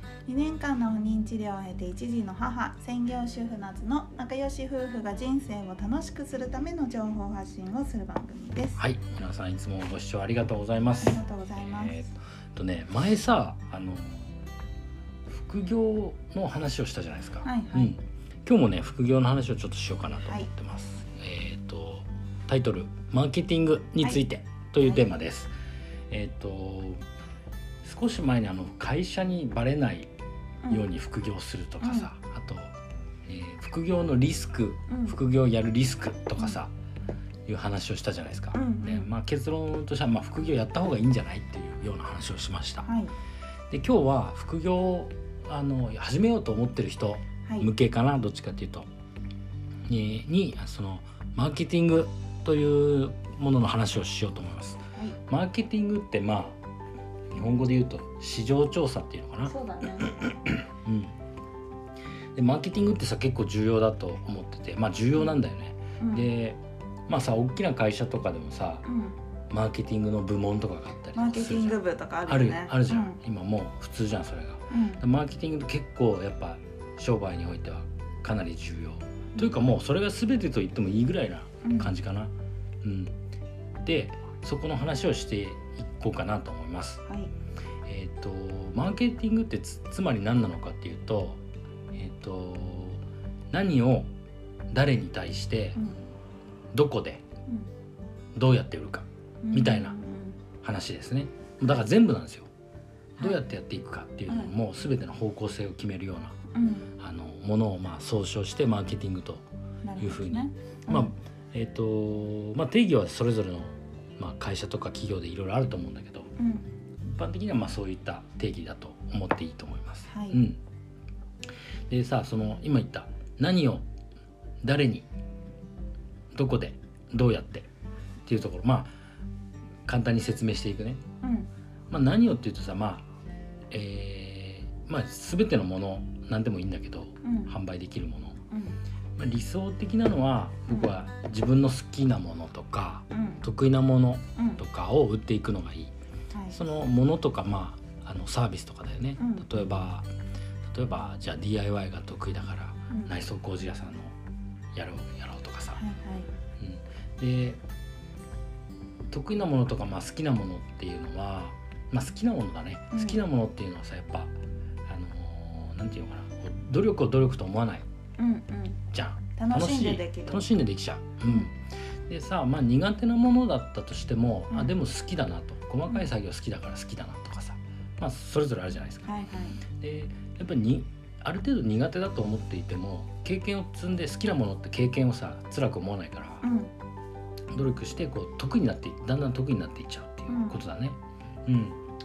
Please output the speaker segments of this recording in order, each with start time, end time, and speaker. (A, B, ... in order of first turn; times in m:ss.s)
0:00.2-0:08.8 A
0:08.8-0:14.3 B
0:11.0-0:12.0 A
0:15.3-0:25.5 B
0:17.4-0:17.9 A
0:26.1-0:27.0 B
0:27.8-0:30.1 B
0:30.7-0:32.7 B
0:31.8-0:32.1 A
0:33.3-0:36.7 B
0:34.9-0:35.2 A
0:37.5-0:42.9 B
0:38.5-0:39.1 A
0:42.8-0:43.1 A
0:43.7-0:48.9 B
0:49.9-0:56.6 B
0:57.3-1:01.1 B
0:59.5-1:00.1 A
1:02.4-1:08.8 B
1:06.0-1:06.3 A
1:08.8-1:09.2 A
1:09.5-1:23.1 B
1:11.1-1:13.2 A
1:14.7-1:15.0 A
1:21.6-1:21.9 A
1:23.8-1:27.0 B
1:27.1-1:27.3 A
1:27.9-1:31.4 B
1:31.9-1:34.1 B
1:34.7-1:35.9 B
1:36.7-1:37.2 B
1:38.4-1:40.0 B
1:39.4-1:40.4 A
1:40.6-1:42.5 B
1:43.2-1:46.4 B
1:44.3-1:44.5 A
1:46.5-1:46.9 A
1:47.0-1:49.4 B
1:49.8-1:51.1 A
1:50.0-1:56.3 B
1:56.4-1:56.7 A
1:57.0-2:00.6 B
2:00.1-2:00.4 A
2:01.9-2:03.8 B
2:04.6-2:05.1 B
2:06.3-2:07.7 B
2:08.3-2:08.9 B
2:09.9-2:11.0 B
2:11.2-2:11.5 A
2:11.9-2:13.1 B
2:13.7-2:18.4 B
2:17.2-2:17.6 A
2:18.5-2:18.8 A
2:19.2-2:25.9 B
2:20.7-2:20.9 A
2:23.1-2:23.4 A
2:24.4-2:24.6 A
2:26.5-2:30.1 B
2:29.2-2:29.5 A
2:30.7-2:34.1 B
2:34.7-2:35.8 B
2:35.8-2:36.3 A
2:36.6-2:37.6 B
2:39.1-2:44.3 B
2:42.9-2:43.2 A
2:44.9-2:47.9 B
2:48.2-2:48.8 A
2:48.9-2:51.6 B
2:49.4-2:50.5 A
2:51.2-2:51.5 A
2:52.1-2:59.1 B
2:59.1-2:59.6 A
2:59.8-3:06.5 B
3:06.4-3:06.7 A
3:07.5-3:11.8 B
3:10.3-3:10.6 A